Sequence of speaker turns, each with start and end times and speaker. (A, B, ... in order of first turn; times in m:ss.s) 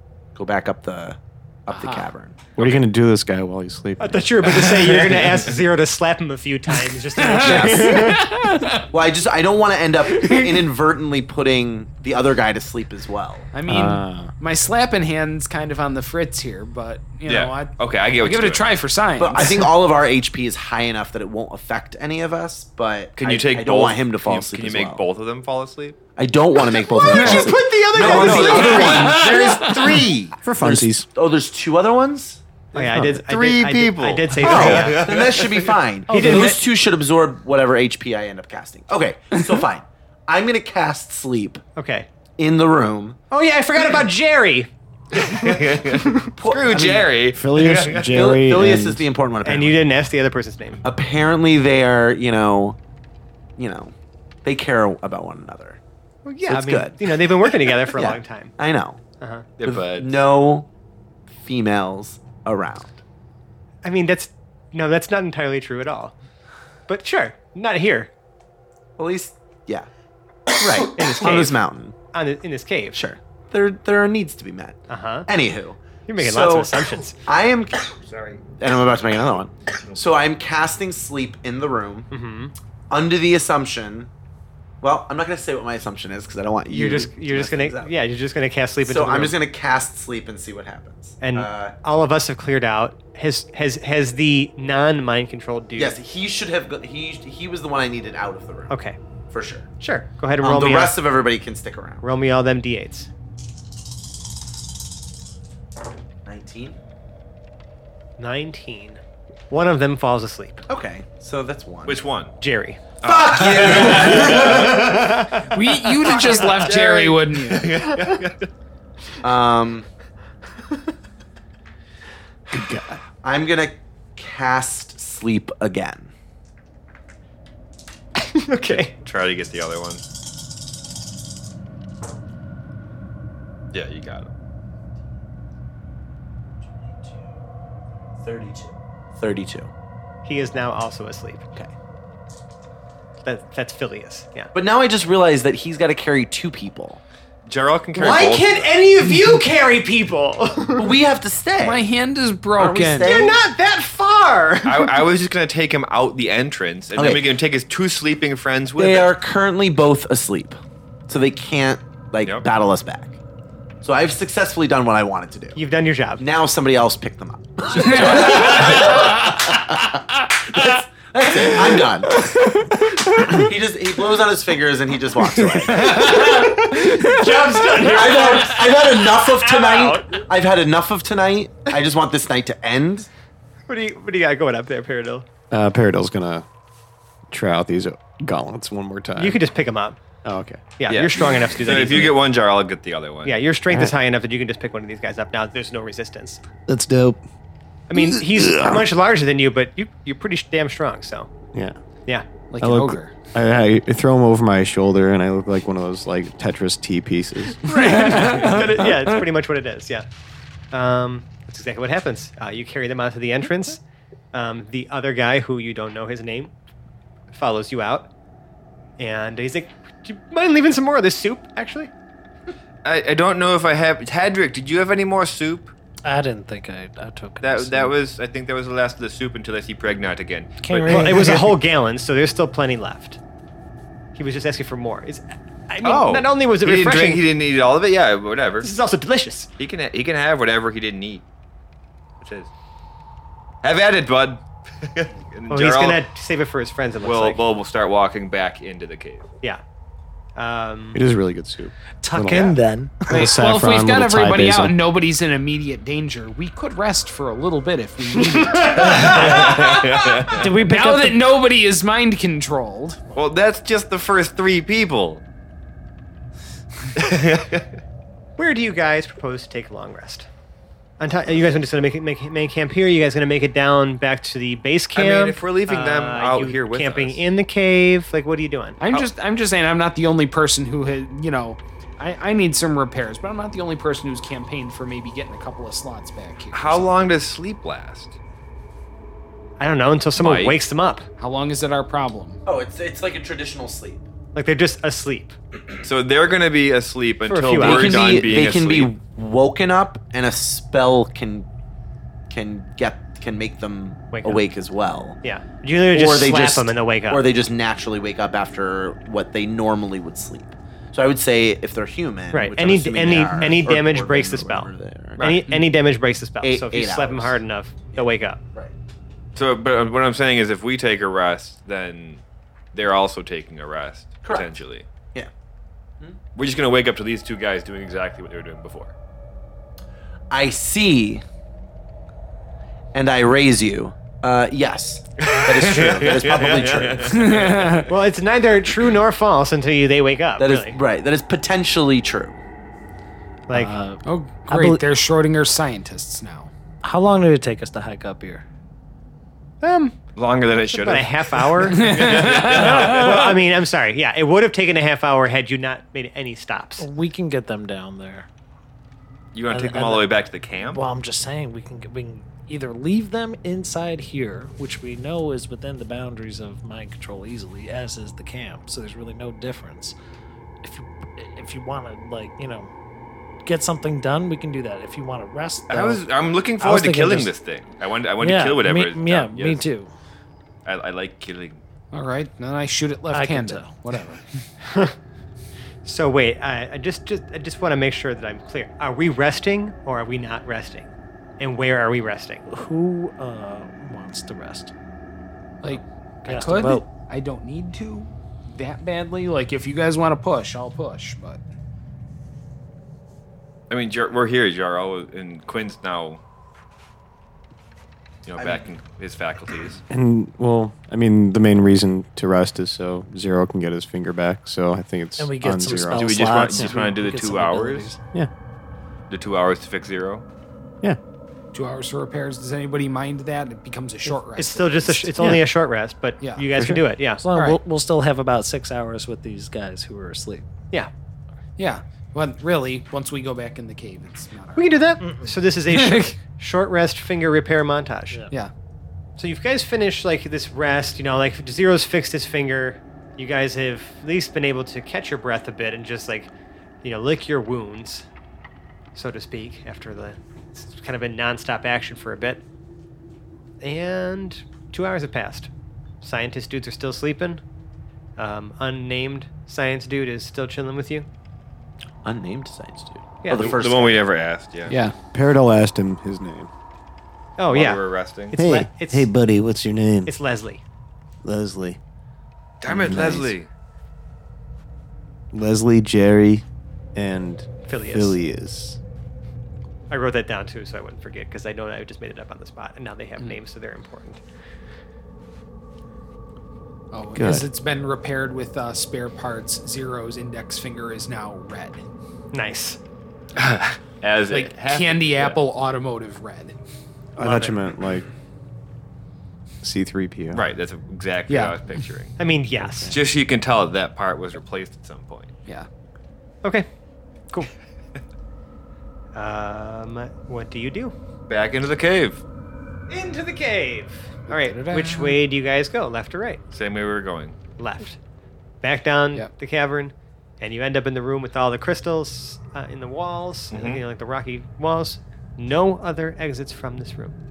0:00.4-0:02.4 A
0:02.6-0:05.0 B
0:04.0-0:08.3 C
0:07.2-0:08.9 D
0:07.4-0:08.1 A
0:08.9-0:13.5 A
0:10.1-0:10.6 D
0:13.5-0:19.7 D
0:13.7-0:14.3 B
0:17.3-0:18.7 E
0:19.2-0:25.0 A
0:23.2-0:26.0 E
0:26.2-0:29.2 A
0:26.9-0:29.2 C
0:27.1-0:27.6 D
0:27.9-0:30.4 E
0:28.2-0:30.1 D
0:30.4-0:31.1 B
0:30.6-0:32.4 A
0:32.7-0:35.2 C
0:32.9-0:35.7 E
0:34.4-0:41.6 A
0:36.1-0:36.6 C
0:41.8-0:42.1 C
0:42.4-0:43.2 A
0:43.3-0:46.1 C
0:45.2-0:48.2 E
0:46.3-0:47.1 A
0:47.3-0:49.0 B
0:48.0-0:49.8 A
0:49.4-0:50.8 C
0:50.8-0:52.8 A
0:53.6-0:55.8 A
0:56.2-0:58.6 C
0:56.5-0:57.2 A
0:57.7-0:59.0 A
0:59.2-0:59.5 C
0:59.6-1:00.1 E
0:59.6-1:00.7 A
1:01.3-1:03.0 A
1:03.8-1:06.2 C
1:06.9-1:08.1 C
1:09.0-1:09.9 A
1:10.5-1:12.0 A
1:11.0-1:11.6 C
1:12.1-1:13.0 C
1:12.9-1:22.1 A
1:14.9-1:15.3 C
1:16.1-1:17.2 C
1:22.1-1:22.5 C
1:22.9-1:24.1 A
1:24.8-1:28.0 A
1:26.7-1:29.4 C
1:28.8-1:31.8 A
1:31.2-1:36.0 C
1:35.8-1:38.7 A
1:38.7-1:39.0 C
1:39.3-1:39.7 A
1:39.8-1:41.0 C
1:40.4-1:42.0 A
1:42.0-1:43.1 C
1:46.3-1:46.8 A
1:48.2-1:50.6 C
1:50.7-1:52.1 A
1:51.9-1:52.3 E
1:52.4-1:52.8 C
1:53.0-1:54.7 E
1:53.0-1:55.2 A
1:55.4-1:57.8 D
1:56.1-1:58.4 E
1:59.2-1:59.9 A
2:02.5-2:03.0 B
2:03.2-2:06.1 A
2:08.2-2:08.9 C
2:08.7-2:10.0 E
2:13.7-2:14.3 E
2:18.2-2:19.7 A
2:20.2-2:21.5 C
2:23.2-2:24.5 C
2:24.5-2:27.0 A
2:27.5-2:28.7 E
2:28.0-2:30.9 C
2:28.0-2:28.3 A
2:30.8-2:31.9 A
2:31.6-2:33.1 D
2:32.6-2:33.4 A
2:33.0-2:34.9 C
2:34.6-2:39.1 E
2:37.0-2:37.2 A
2:38.8-2:43.2 A
2:43.8-2:45.6 A
2:45.6-2:46.2 C
2:46.2-2:52.3 A
2:47.8-2:49.4 D
2:52.3-2:52.7 D
2:53.1-2:56.4 A
2:55.7-2:57.3 D
2:55.9-3:00.2 C
2:57.5-3:03.1 A
3:03.7-3:05.3 C
3:05.5-3:06.5 B
3:07.3-3:09.4 B
3:09.2-3:10.0 C
3:10.2-3:10.6 B
3:10.8-3:12.2 C
3:10.9-3:13.4 E
3:13.2-3:16.4 C
3:16.7-3:17.2 B
3:17.9-3:21.3 C
3:17.9-3:18.9 B
3:22.5-3:23.1 D
3:22.6-3:28.5 B
3:27.7-3:28.6 D
3:27.7-3:30.1 C
3:30.7-3:33.8 C
3:34.3-3:36.5 C
3:37.3-3:38.1 C
3:39.0-3:41.9 C
3:42.8-3:45.7 E
3:46.0-3:47.9 F
3:47.4-3:51.5 E
3:50.6-3:51.6 F
3:50.9-3:53.2 C
3:54.2-3:57.2 C
3:55.8-3:58.7 E
3:58.6-3:59.5 C
3:59.6-4:01.2 E
4:02.2-4:02.5 E
4:03.6-4:06.0 E
4:05.5-4:07.4 C
4:07.0-4:09.3 E
4:10.4-4:11.0 C
4:10.9-4:12.6 B
4:12.0-4:13.3 F
4:12.3-4:12.6 C
4:13.1-4:14.8 B
4:13.1-4:23.0 D
4:18.6-4:20.5 E
4:18.9-4:19.7 F
4:20.3-4:21.2 F
4:23.1-4:25.2 E
4:26.9-4:27.7 E
4:28.4-4:30.3 C
4:31.0-4:38.8 C
4:35.0-4:37.2 E
4:38.8-4:47.2 D
4:46.5-4:48.2 E
4:49.6-4:51.1 C
4:50.2-4:50.6 E
4:51.2-4:52.4 D
4:52.5-4:54.0 A
4:54.4-4:55.4 C
4:55.8-4:58.9 E
4:57.3-4:58.2 C
4:57.6-5:01.5 A
5:02.3-5:05.2 A
5:04.1-5:04.4 C
5:05.2-5:07.2 C
5:05.9-5:15.3 A
5:12.3-5:18.4 C
5:15.2-5:15.5 E
5:16.4-5:17.4 A
5:17.9-5:18.7 A
5:19.4-5:24.9 E
5:24.2-5:24.6 A
5:26.4-5:28.9 E
5:30.3-5:31.2 A
5:32.9-5:37.3 A
5:35.2-5:37.9 E
5:37.1-5:37.9 D
5:37.9-5:40.8 C
5:40.4-5:42.4 A
5:43.5-5:43.8 C
5:43.5-5:44.8 F
5:44.0-5:46.5 D
5:46.8-5:48.4 F
5:49.6-5:50.0 C
5:50.2-5:53.3 E
5:50.7-5:56.9 C
5:51.8-5:52.8 D
5:52.6-5:53.3 F
5:56.8-5:58.3 F
5:59.3-6:00.8 E
5:59.5-6:10.0 F
6:10.6-6:12.7 F
6:13.4-6:16.0 F
6:15.7-6:19.6 E
6:16.6-6:17.3 F
6:18.2-6:19.9 F
6:20.6-6:21.6 E
6:21.9-6:24.2 D
6:23.1-6:23.8 F
6:24.6-6:25.0 C
6:25.8-6:32.5 C
6:32.5-6:34.7 F
6:35.6-6:41.4 D
6:36.3-6:36.9 F
6:43.7-6:46.2 E
6:48.3-6:49.8 E
6:48.4-6:48.7 A
6:49.9-6:56.7 B
6:55.2-6:58.0 F
6:56.0-6:57.9 E
6:59.1-7:00.2 E
7:01.5-7:05.4 D
7:04.4-7:07.2 C
7:06.2-7:06.5 D
7:07.2-7:10.5 F
7:07.3-7:07.6 D
7:11.6-7:14.8 D
7:14.6-7:18.2 C
7:15.0-7:15.3 F
7:19.2-7:26.3 C
7:26.8-7:28.1 C
7:29.0-7:32.4 C
7:33.6-7:35.5 C
7:36.0-7:37.4 C
7:38.2-7:41.1 C
7:42.0-7:44.0 A
7:43.2-7:43.6 C
7:43.4-7:44.8 E
7:44.7-7:45.0 D
7:45.1-7:46.5 B
7:47.4-7:49.1 C
7:47.5-7:48.3 E
7:48.4-7:50.1 B
7:50.1-7:50.6 C
7:51.2-7:51.8 B
7:52.6-7:53.5 E
7:52.7-7:53.2 D
7:52.7-7:53.3 B
7:55.3-7:58.8 B
7:57.7-7:58.2 C
7:59.9-8:04.2 C
8:06.9-8:11.9 D
8:07.2-8:07.5 B
8:12.3-8:12.8 C
8:13.4-8:15.4 E
8:14.3-8:16.6 D
8:17.2-8:18.1 B
8:17.2-8:17.6 C
8:19.6-8:20.4 B
8:20.3-8:22.2 E
8:21.3-8:21.6 D
8:22.2-8:23.0 C
8:22.6-8:22.9 B
8:22.9-8:25.3 E
8:29.1-8:30.9 C
8:31.3-8:32.2 E
8:32.9-8:36.4 C
8:34.3-8:35.2 D
8:36.5-8:37.4 E
8:37.6-8:38.0 C
8:38.6-8:47.2 C
8:43.5-8:43.8 E